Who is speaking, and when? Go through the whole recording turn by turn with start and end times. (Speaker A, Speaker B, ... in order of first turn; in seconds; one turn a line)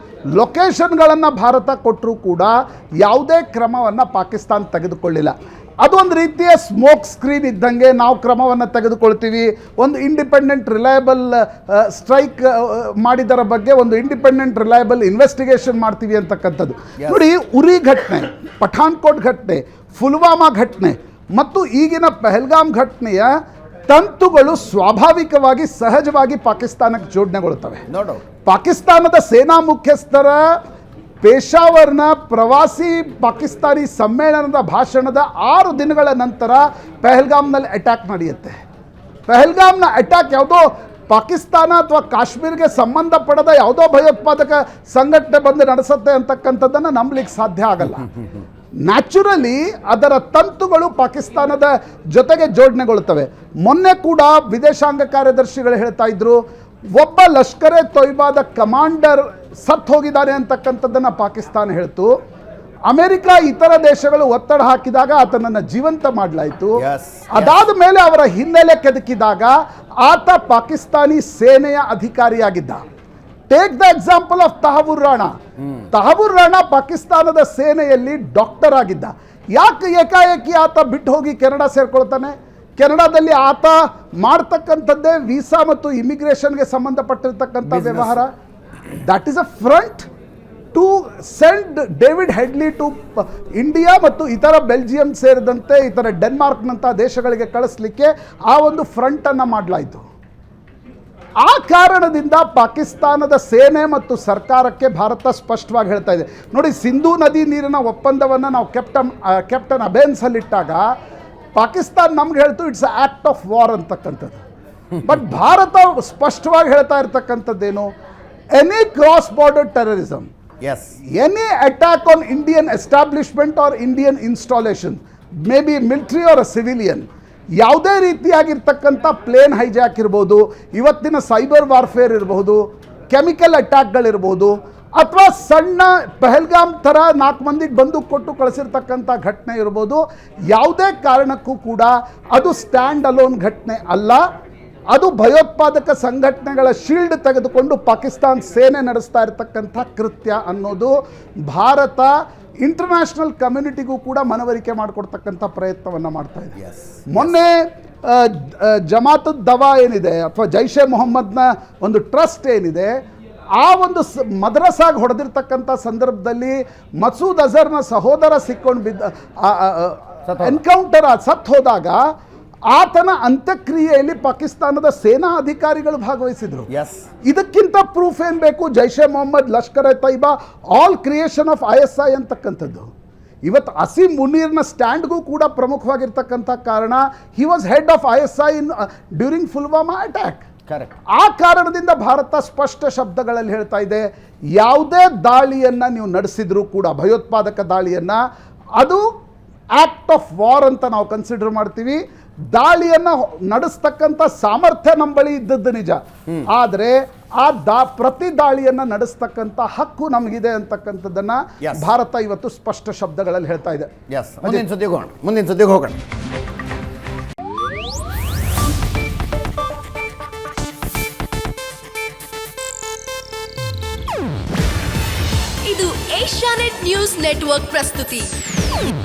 Speaker A: 0.3-23.3
Speaker A: 23.9-27.8
Speaker B: 27.9-28.2
Speaker A: 28.5-30.4
Speaker A: 31.2-38.6
Speaker A: 39.3-48.1
Speaker A: 48.9-56.4
Speaker A: 57.0-62.1
Speaker A: 62.9-66.8
Speaker B: 66.8-67.5
Speaker A: 67.3-72.8
Speaker A: 73.5-75.3
Speaker A: 75.9-88.3
Speaker B: 87.7-88.2
Speaker A: 89.0-90.1
Speaker A: 90.7-100.0
Speaker A: 101.4-110.8
Speaker A: 111.6-114.4
Speaker A: 115.0-117.9
Speaker A: 118.5-120.3
Speaker B: 120.6-121.0
Speaker A: 121.1-127.1
Speaker A: 127.6-132.6
Speaker A: 133.1-144.2
Speaker A: 144.9-150.9
Speaker A: 151.5-152.1
Speaker A: 152.6-156.6
Speaker B: 156.6-157.3
Speaker A: 157.1-162.9
Speaker A: 163.6-172.0
Speaker B: 170.3-170.6
Speaker A: 172.7-176.7
Speaker B: 176.7-177.0
Speaker A: 177.3-182.9
Speaker A: 183.5-190.4
Speaker B: 190.7-191.0
Speaker A: 191.2-194.0
Speaker A: 194.6-198.2
Speaker A: 198.8-199.0
Speaker A: 199.8-202.0
Speaker A: 202.5-213.9
Speaker B: 211.6-211.9
Speaker B: 214.1-216.0
Speaker C: 225.6-228.3